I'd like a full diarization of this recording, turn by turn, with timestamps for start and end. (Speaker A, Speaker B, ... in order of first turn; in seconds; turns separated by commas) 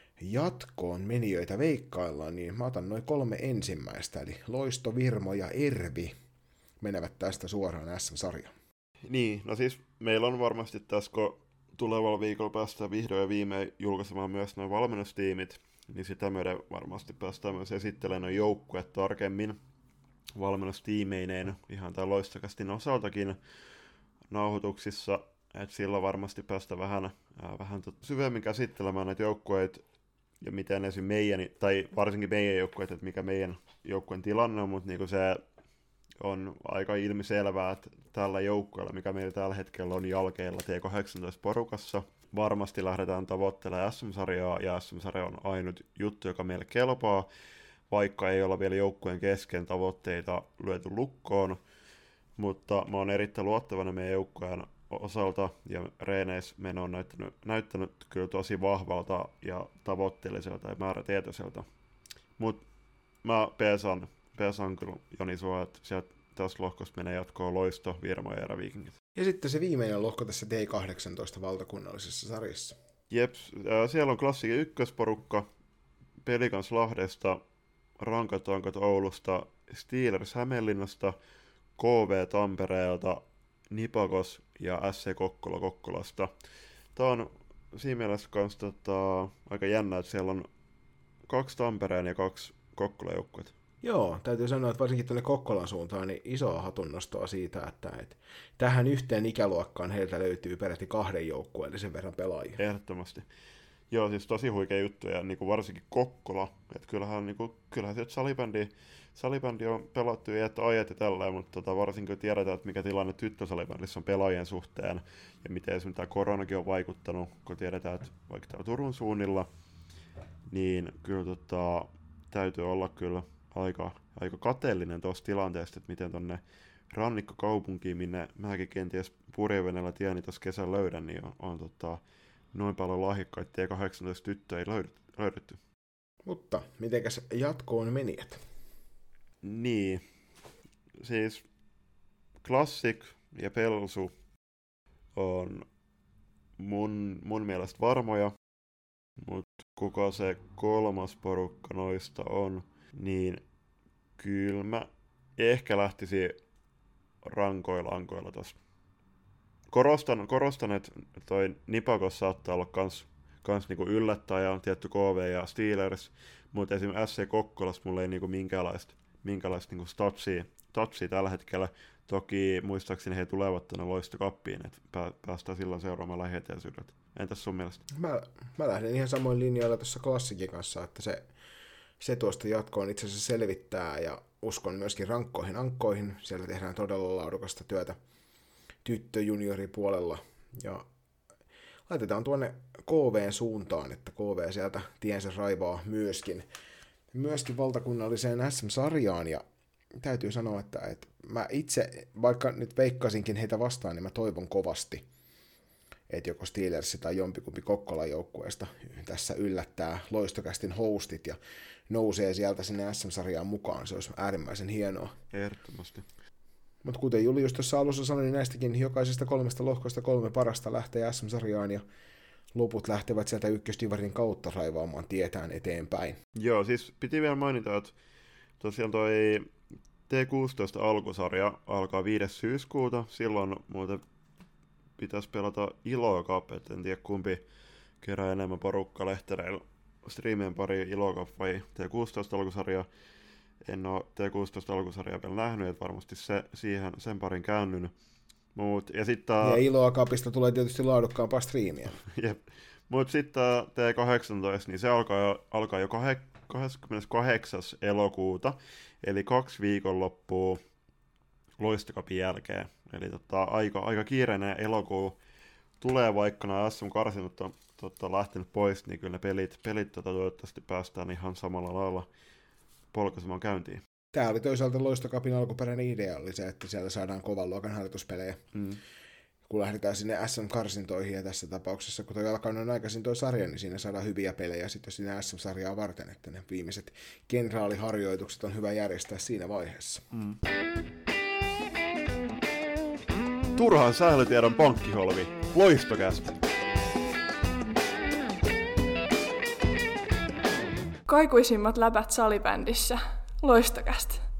Speaker A: 0.2-6.1, Speaker A: 6.8-8.5, Speaker B: 9.0-19.6, Speaker B: 20.4-23.4, Speaker B: 24.3-29.8, Speaker B: 30.4-35.4, Speaker B: 36.2-47.3, Speaker B: 47.9-51.6, Speaker B: 52.4-61.6, Speaker B: 62.4-62.6, Speaker B: 63.2-69.0, Speaker A: 69.2-72.8, Speaker B: 73.1-75.5, Speaker B: 76.2-77.4, Speaker B: 78.0-81.1, Speaker B: 81.8-86.3, Speaker B: 86.9-90.5, Speaker B: 91.3-93.5, Speaker A: 93.8-102.6, Speaker B: 102.6-103.2, Speaker B: 103.9-119.5, Speaker B: 120.5-132.0, Speaker B: 132.5-135.6, Speaker A: 136.2-138.4, Speaker B: 139.4-140.0, Speaker B: 141.0-141.4, Speaker B: 142.4-144.1, Speaker B: 145.1-145.7, Speaker B: 146.6-148.3, Speaker B: 149.2-153.4, Speaker B: 154.2-156.4, Speaker B: 157.2-158.6, Speaker B: 159.7-177.8, Speaker A: 177.9-181.3, Speaker A: 182.0-188.0, Speaker A: 188.8-190.8, Speaker A: 191.9-196.4, Speaker A: 197.1-199.4, Speaker A: 200.0-205.0, Speaker A: 206.1-211.4, Speaker A: 211.9-215.1, Speaker B: 215.3-216.0, Speaker A: 216.8-221.8, Speaker A: 222.5-226.2, Speaker B: 226.3-227.9, Speaker B: 228.6-229.5, Speaker B: 230.1-234.0, Speaker B: 235.0-237.4, Speaker B: 238.0-242.9, Speaker B: 243.6-247.9, Speaker B: 248.5-249.6, Speaker A: 249.4-252.0, Speaker B: 252.0-260.6, Speaker B: 261.6-265.2, Speaker B: 265.8-272.1, Speaker B: 272.9-273.8, Speaker A: 274.1-278.4, Speaker B: 278.5-278.8, Speaker A: 279.5-290.0, Speaker B: 290.1-290.4, Speaker B: 293.5-296.4, Speaker C: 301.1-304.2